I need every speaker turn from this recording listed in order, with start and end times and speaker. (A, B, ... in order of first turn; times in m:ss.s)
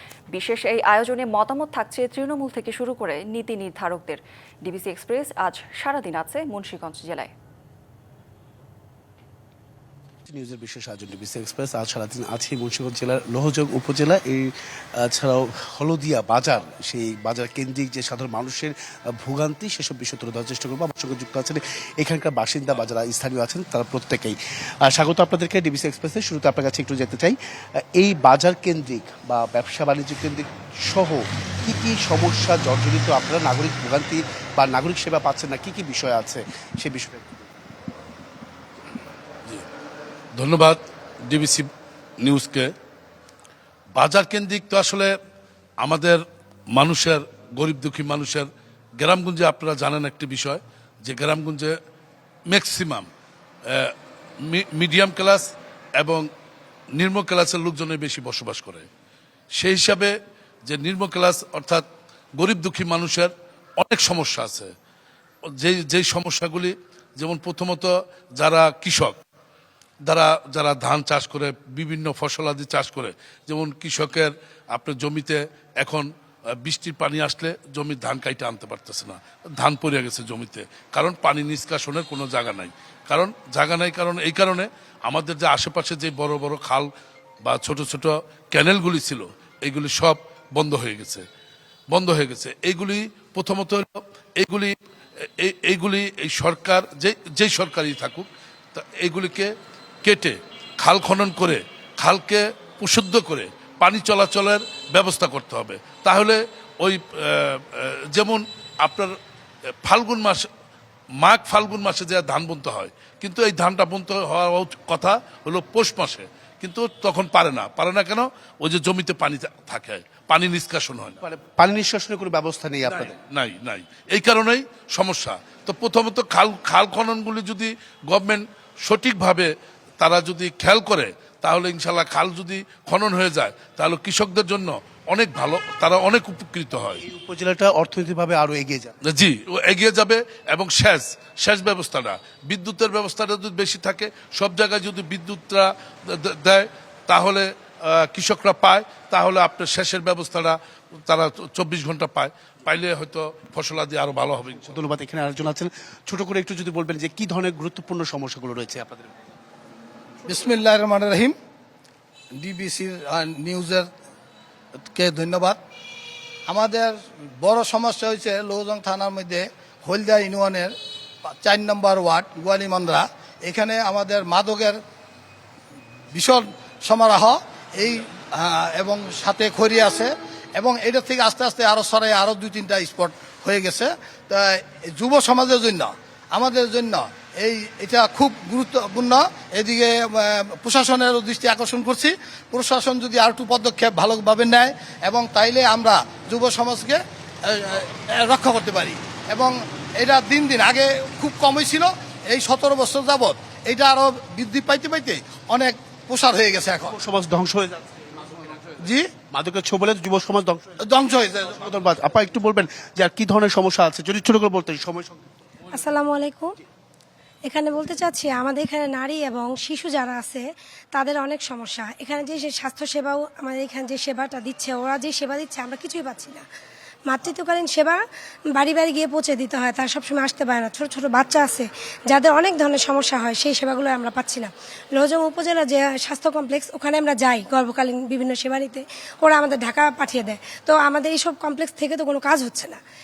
0:00.3-0:07.3 A
0:10.3-0:37.5 B
0:40.4-0:41.7 C
0:42.2-0:42.7 C
0:44.0-0:45.1 C
0:45.8-0:46.2 C
0:46.8-0:48.5 C
0:49.0-0:51.7 C
0:52.5-0:53.1 C
0:53.7-0:53.9 C
0:54.5-0:56.3 C
0:57.0-0:58.9 C
0:59.6-1:00.1 C
1:00.7-1:01.8 C
1:02.4-1:04.7 C
1:05.6-1:09.2 C
1:10.1-1:16.1 C
1:16.6-1:26.9 C
1:27.4-1:31.2 C
1:31.9-1:34.8 C
1:35.4-1:39.5 C
1:40.0-1:49.1 C
1:49.8-1:50.5 C
1:51.2-2:01.2 C
2:01.2-2:03.2 B
2:02.9-2:09.5 C
2:10.0-2:17.0 C
2:17.0-2:18.9 B
2:19.0-2:34.8 C
2:34.7-2:39.1 B
2:40.2-2:41.4 D
2:42.4-2:43.9 D
2:44.8-2:45.6 D
2:46.5-2:50.7 D
2:51.4-2:54.8 D
2:56.1-3:27.0 D
3:26.9-3:27.9 B
3:28.8-3:29.1 D
3:29.3-3:30.8 B
3:30.8-3:31.6 D
3:31.5-3:35.2 B
3:35.7-3:36.6 E
3:37.4-3:46.4 E
3:47.1-3:48.0 E
3:48.5-4:02.8 E